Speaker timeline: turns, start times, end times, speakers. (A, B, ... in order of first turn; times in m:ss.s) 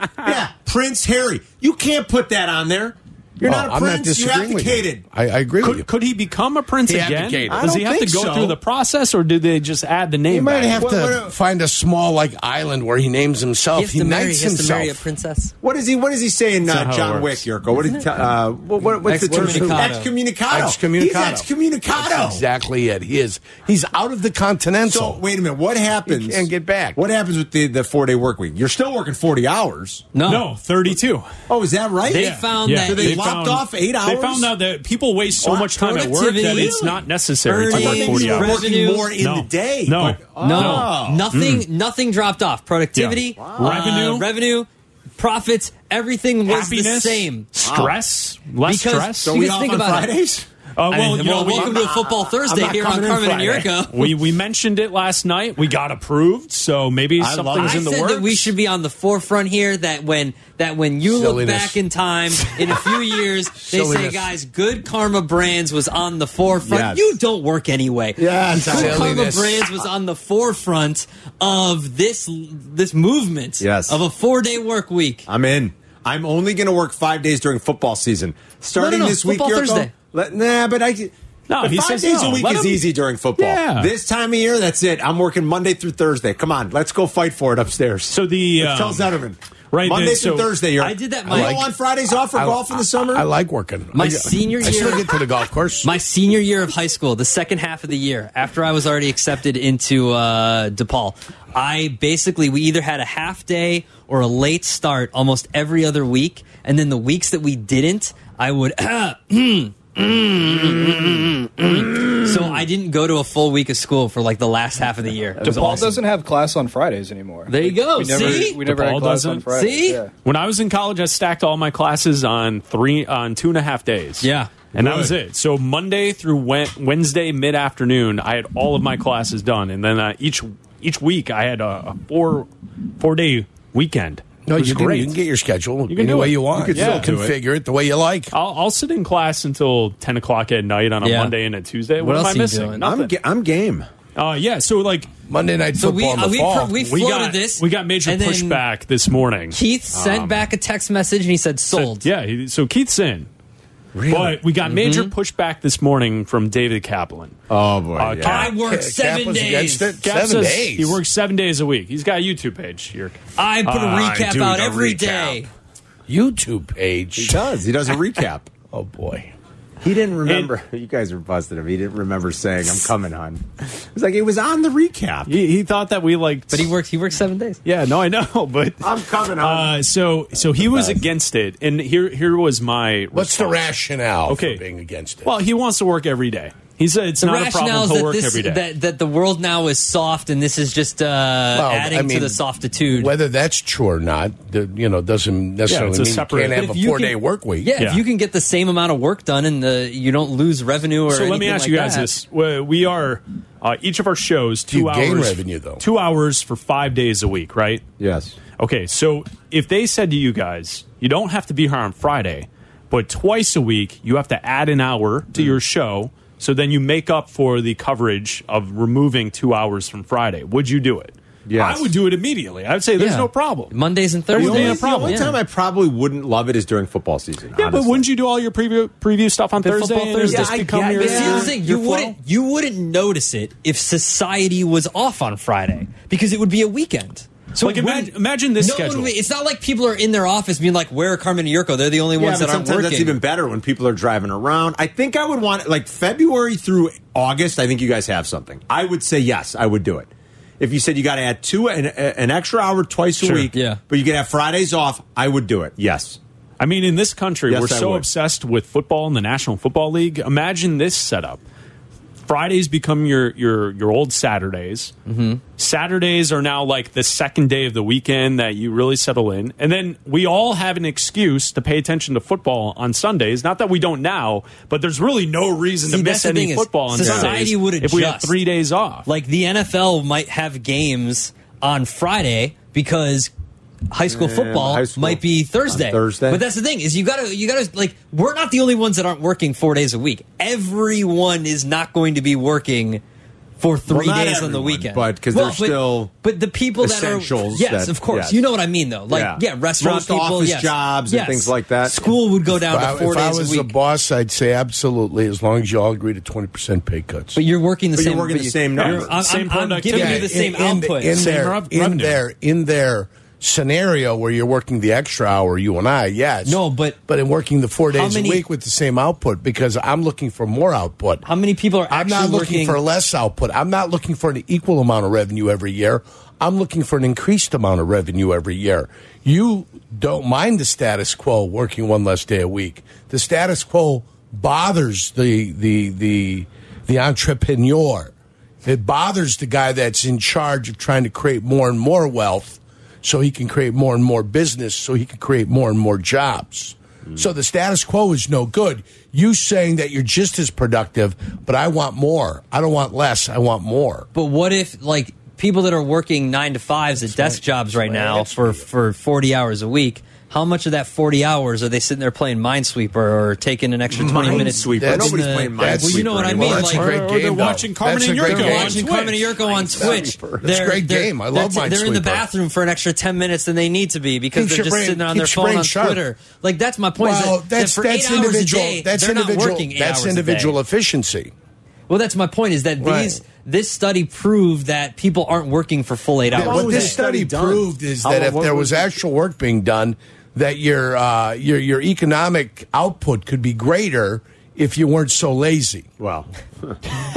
0:00.2-0:05.0 A
0:03.4-0:05.9 B
0:05.6-0:10.9 C
0:06.8-0:07.7 B
0:07.5-0:08.6 A
0:10.3-0:15.0 B
0:10.7-0:11.3 A
0:13.7-0:15.5 D
0:15.6-0:22.4 A
0:16.6-0:17.4 C
0:19.0-0:20.1 D
0:19.1-0:25.2 B
0:24.8-0:30.1 A
0:26.0-0:27.0 B
0:30.1-0:30.5 D
0:30.2-0:31.3 C
0:31.5-0:34.5 A
0:32.1-0:33.4 D
0:32.1-0:41.6 C
0:35.4-0:36.9 D
0:36.4-0:37.0 A
0:37.4-0:39.1 D
0:37.6-0:41.3 A
0:40.4-0:47.5 D
0:43.0-0:44.3 C
0:43.4-0:43.8 A
0:46.5-0:49.3 C
0:47.6-0:48.0 A
0:48.6-0:50.1 D
0:49.2-0:50.5 A
0:50.8-0:51.8 C
0:50.9-0:54.1 D
0:51.4-0:53.7 A
0:53.9-0:58.5 C
0:57.2-0:57.9 A
0:57.6-1:15.3 D
1:01.1-1:01.8 B
1:02.6-1:03.0 B
1:03.6-1:04.3 B
1:06.6-1:07.0 A
1:08.2-1:09.4 A
1:08.5-1:09.6 B
1:13.6-1:14.0 A
1:15.3-1:33.3 A
1:18.7-1:19.9 D
1:21.5-1:23.9 C
1:28.1-1:29.2 C
1:29.7-1:30.6 C
1:30.8-1:31.7 D
1:31.3-1:31.7 B
1:32.3-1:36.0 B
1:33.9-1:35.1 D
1:35.8-1:56.0 D
1:55.4-2:00.1 E
1:57.5-1:58.6 D
1:58.1-1:59.5 C
1:59.5-2:00.0 D
2:00.2-2:15.1 C
2:04.2-2:04.5 D
2:04.7-2:05.1 A
2:14.4-2:18.3 B
2:15.9-2:17.1 C
2:16.5-2:17.4 A
2:18.3-2:23.1 C
2:21.0-2:21.3 D
2:22.0-2:22.9 D
2:22.8-2:23.9 A
2:24.1-2:25.1 C
2:25.3-2:26.8 B
2:25.8-2:28.6 D
2:26.8-2:29.6 C
2:29.5-2:32.1 D
2:29.9-2:30.4 A
2:31.7-2:33.3 C
2:33.9-2:34.4 A
2:34.1-2:37.4 C
2:34.6-2:35.1 D
2:37.5-2:38.5 A
2:37.9-2:38.6 C
2:38.2-2:40.0 D
2:38.6-2:41.0 B
2:40.0-2:45.4 C
2:43.4-2:45.5 D
2:46.1-2:47.4 B
2:47.2-2:48.5 A
2:48.7-2:49.3 B
2:49.8-2:55.3 A
2:50.2-2:50.5 C
2:55.3-2:56.7 C
2:56.5-2:57.6 D
2:57.6-3:03.7 C
2:58.8-2:59.7 A
3:00.6-3:01.0 A
3:03.1-3:05.3 B
3:04.3-3:04.6 C
3:05.2-3:08.6 C
3:07.2-3:13.1 D
3:11.5-3:12.4 B
3:13.0-3:17.7 B
3:15.7-3:16.6 C
3:16.5-3:22.1 D
3:17.8-3:18.0 C
3:21.1-3:27.8 C
3:24.7-3:25.8 B
3:28.0-3:28.4 A
3:28.6-3:43.7 C
3:41.5-3:41.9 A
3:43.0-3:45.4 D
3:44.3-3:45.3 C
3:44.3-3:48.0 A
3:47.6-3:52.1 C
3:49.6-4:03.2 D
3:50.2-3:51.6 A
3:57.6-3:59.1 C
4:02.2-4:16.2 A
4:13.2-4:13.5 C
4:13.5-4:13.8 D
4:16.6-4:21.4 C
4:17.5-4:18.0 A
4:22.2-4:24.9 C
4:25.0-4:25.4 D
4:25.6-4:39.0 C
4:35.9-4:38.3 D
4:36.9-4:37.4 A
4:39.0-4:43.3 D
4:43.9-4:53.0 D
4:44.1-4:46.4 A
4:53.6-5:03.7 D
4:53.9-4:56.1 A
4:56.8-4:58.4 A
4:59.1-5:02.1 A
5:02.6-5:07.4 B
5:07.3-5:11.2 D
5:07.9-5:09.1 A
5:08.8-5:10.3 C
5:09.9-5:21.2 B
5:11.1-5:12.2 C
5:16.4-5:17.0 D
5:17.9-5:18.4 D
5:21.2-5:22.8 D
5:21.9-5:38.1 B
5:38.6-5:54.1 B
5:54.1-6:06.9 D
5:57.1-5:58.6 B
6:03.9-6:06.8 A
6:04.0-6:08.9 B
6:06.6-6:09.3 C
6:08.2-6:20.6 D
6:09.4-6:10.4 A
6:09.7-6:12.2 B
6:14.3-6:16.0 B
6:17.0-6:21.3 B
6:21.9-6:27.0 D
6:22.8-6:23.2 B
6:26.3-6:28.9 A
6:26.3-6:35.8 B
6:36.0-6:36.8 A